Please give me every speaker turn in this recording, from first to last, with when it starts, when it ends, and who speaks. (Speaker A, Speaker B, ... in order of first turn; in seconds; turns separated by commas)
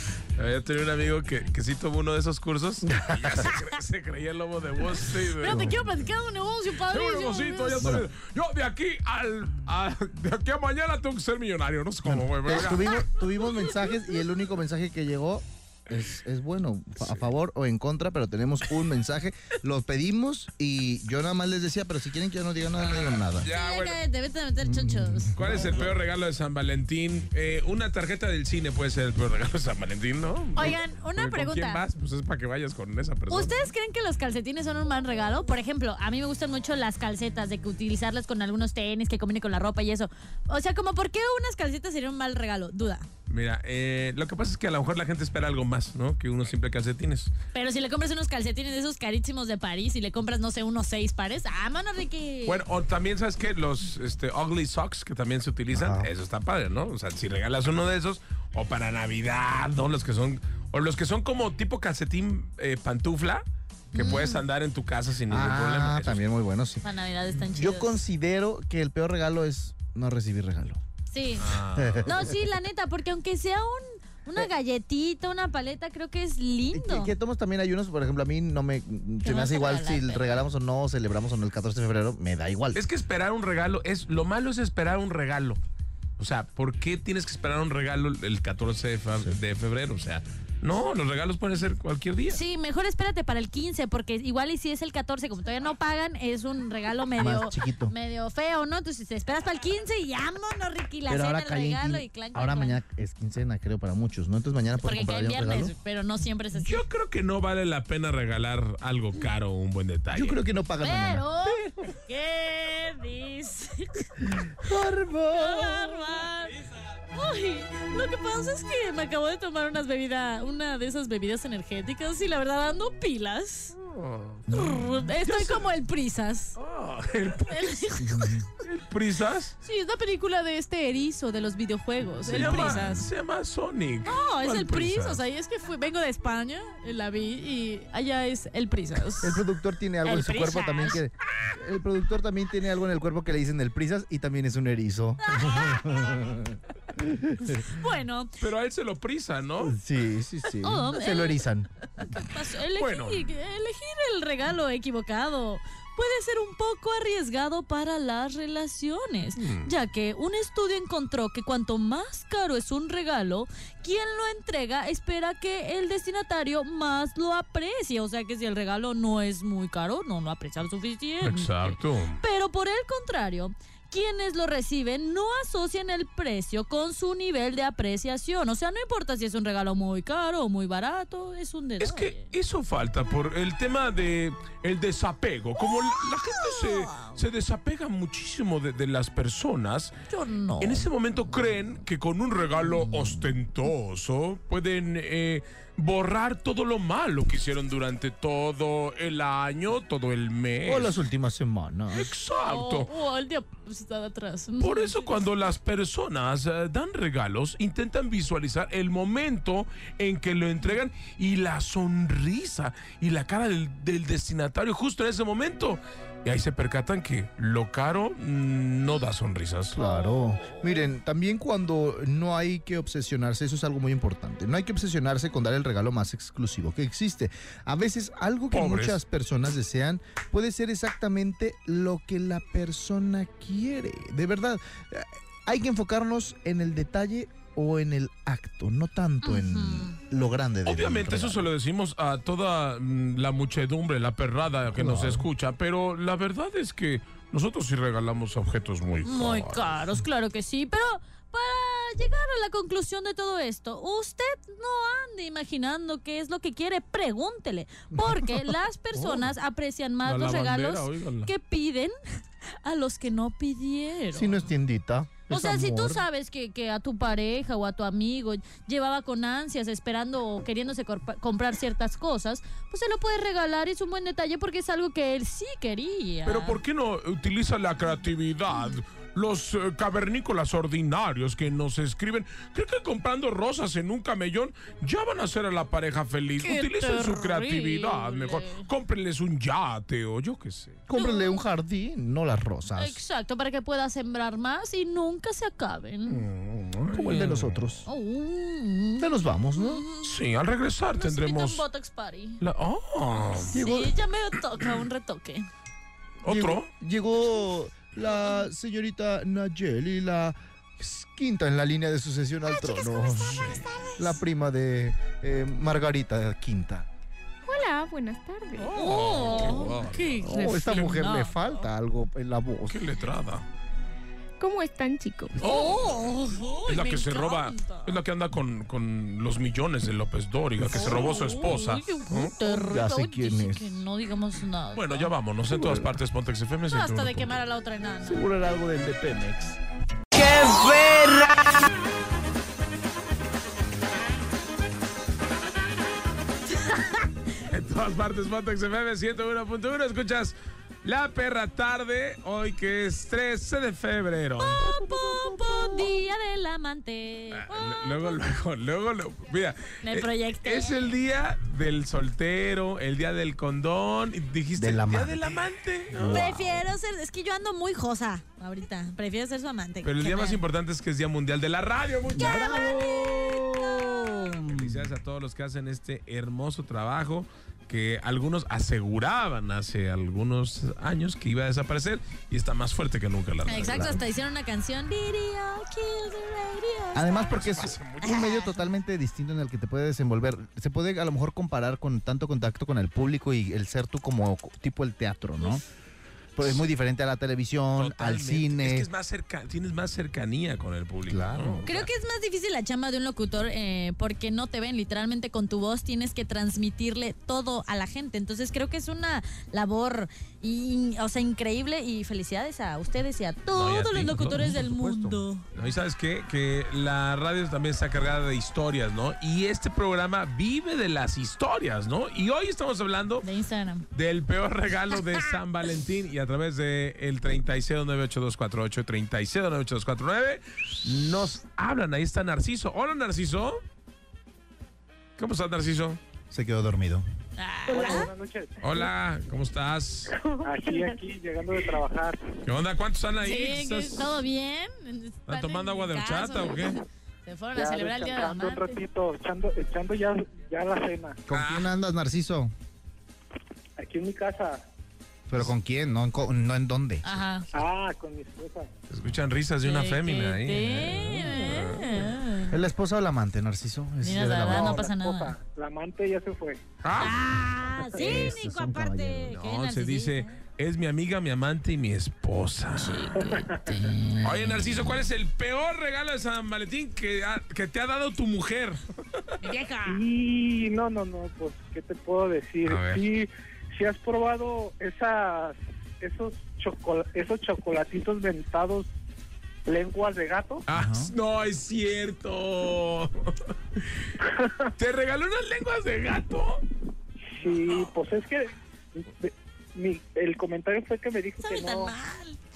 Speaker A: 0.4-5.7, Speaker B: 2.9-3.5, Speaker C: 5.4-7.9, Speaker B: 5.5-5.9, Speaker A: 6.9-13.1, Speaker B: 7.8-8.1, Speaker B: 12.0-23.5, Speaker A: 17.0-17.3, Speaker A: 22.9-24.0, Speaker C: 23.5-25.4, Speaker B: 24.6-25.8, Speaker A: 25.3-33.7, Speaker C: 30.6-31.8, Speaker C: 33.3-43.1, Speaker A: 43.3-47.3, Speaker C: 47.5-52.6, Speaker A: 52.4-66.2, Speaker B: 55.7-56.1, Speaker B: 63.9-64.2, Speaker C: 64.0-64.4, Speaker B: 65.3-70.8, Speaker C: 66.8-68.0, Speaker C: 71.1-71.5, Speaker A: 71.4-72.1, Speaker B: 71.7-72.3, Speaker C: 72.0-77.1, Speaker B: 76.7-82.8, Speaker C: 79.2-80.4, Speaker A: 82.7-85.6, Speaker A: 86.2-92.4, Speaker C: 92.3-102.8, Speaker B: 97.2-97.9, Speaker B: 101.1-105.7, Speaker C: 104.8-106.8, Speaker A: 106.5-110.4, Speaker B: 110.1-111.3, Speaker C: 110.8-114.1, Speaker B: 114.6-116.0, Speaker C: 115.3-116.5, Speaker C: 117.1-123.7, Speaker A: 123.8-125.7, Speaker C: 124.5-126.6, Speaker A: 126.5-127.8, Speaker C: 127.5-128.3, Speaker B: 128.0-128.5, Speaker A: 128.6-129.5, Speaker C: 129.6-133.1, Speaker A: 132.2-135.2, Speaker B: 132.3-133.1, Speaker C: 134.1-139.4, Speaker B: 139.2-147.6, Speaker C: 140.0-141.0, Speaker C: 145.2-146.2, Speaker C: 147.5-148.3, Speaker A: 148.4-149.7, Speaker B: 149.6-151.7, Speaker C: 150.6-151.4, Speaker C: 152.0-182.3, Speaker A: 152.7-153.3, Speaker A: 159.4-159.7, Speaker A: 171.2-172.2, Speaker A: 181.8-189.9, Speaker C: 186.3-187.2, Speaker C: 190.1-190.9, Speaker A: 190.6-201.0, Speaker B: 192.7-193.2, Speaker B: 200.7-202.1, Speaker A: 201.9-202.9, Speaker C: 202.4-205.1, Speaker A: 204.6-219.8, Speaker B: 219.7-241.5, Speaker C: 219.8-220.6, Speaker A: 228.5-229.0, Speaker C: 239.2-240.0, Speaker A: 240.7-249.8, Speaker B: 244.7-245.3, Speaker C: 249.0-261.9, Speaker A: 260.0-261.3, Speaker C: 262.6-264.5, Speaker B: 264.1-266.0, Speaker C: 265.3-276.6, Speaker A: 276.2-290.8, Speaker C: 286.4-288.6, Speaker B: 290.9-293.0, Speaker C: 290.9-291.4, Speaker C: 292.8-296.2, Speaker A: 296.1-297.6, Speaker B: 296.9-297.9, Speaker C: 297.9-300.1, Speaker B: 299.0-299.8, Speaker A: 300.0-301.6, Speaker C: 300.9-302.4, Speaker A: 302.4-303.6, Speaker C: 303.4-305.5, Speaker B: 303.5-303.9, Speaker A: 306.2-306.7, Speaker B: 306.2-316.9, Speaker C: 312.6-313.9, Speaker A: 313.3-313.6, Speaker D: 317.4-318.8, Speaker A: 318.6-320.2, Speaker C: 318.7-321.4, Speaker B: 320.2-322.8, Speaker A: 322.7-323.4, Speaker D: 324.4-325.4, Speaker A: 325.4-326.0, Speaker C: 325.4-328.0, Speaker A: 326.7-332.3, Speaker B: 330.6-331.4, Speaker C: 330.6-335.1, Speaker B: 332.4-333.8, Speaker A: 334.7-337.4, Speaker B: 335.5-335.9, Speaker C: 336.7-338.3, Speaker B: 338.0-339.6, Speaker C: 340.2-341.2, Speaker C: 346.6-347.1, Speaker A: 347.5-354.7, Speaker C: 354.4-358.2, Speaker B: 354.6-355.9, Speaker A: 357.3-366.4, Speaker C: 359.8-360.9, Speaker B: 364.5-366.6, Speaker C: 366.1-370.4, Speaker A: 369.8-372.8, Speaker B: 372.1-374.9, Speaker C: 372.2-374.2, Speaker A: 374.5-384.0, Speaker C: 383.4-387.3, Speaker B: 383.5-384.1, Speaker B: 386.9-395.6, Speaker A: 387.1-388.2, Speaker C: 388.0-388.6, Speaker B: 396.4-398.9, Speaker A: 397.8-401.9, Speaker B: 401.1-401.6, Speaker C: 401.6-415.4, Speaker A: 413.5-414.5, Speaker B: 414.3-415.2, Speaker A: 415.5-423.2, Speaker C: 423.2-423.8, Speaker A: 423.9-433.6, Speaker A: 435.2-436.0, Speaker B: 436.3-437.0, Speaker C: 437.4-438.1, Speaker E: 437.7-438.9, Speaker A: 438.6-440.2, Speaker E: 440.2-442.3, Speaker A: 442.4-444.2, Speaker C: 443.2-448.8, Speaker A: 445.3-446.8, Speaker E: 447.5-451.2, Speaker B: 451.3-452.5, Speaker A: 451.3-451.7, Speaker E: 453.8-454.6, Speaker B: 455.3-457.0, Speaker C: 457.0-457.5, Speaker E: 457.5-458.7, Speaker A: 458.9-462.1, Speaker C: 459.6-462.5, Speaker B: 462.5-464.9, Speaker C: 464.0-465.3, Speaker E: 464.4-466.6, Speaker A: 466.8-467.2, Speaker C: 466.9-470.3, Speaker B: 468.0-469.4, Speaker A: 469.3-473.1, Speaker C: 472.8-474.6, Speaker E: 473.2-473.6, Speaker A: 474.2-478.8, Speaker C: 479.4-480.0, Speaker E: 479.9-488.9, Speaker A: 482.6-483.0, Speaker E: 489.6-490.6, Speaker A: 490.7-494.1, Speaker B: 490.7-491.1, Speaker E: 494.4-494.6, Speaker A: 494.8-496.6, Speaker E: 497.3-501.9, Speaker C: 501.4-502.4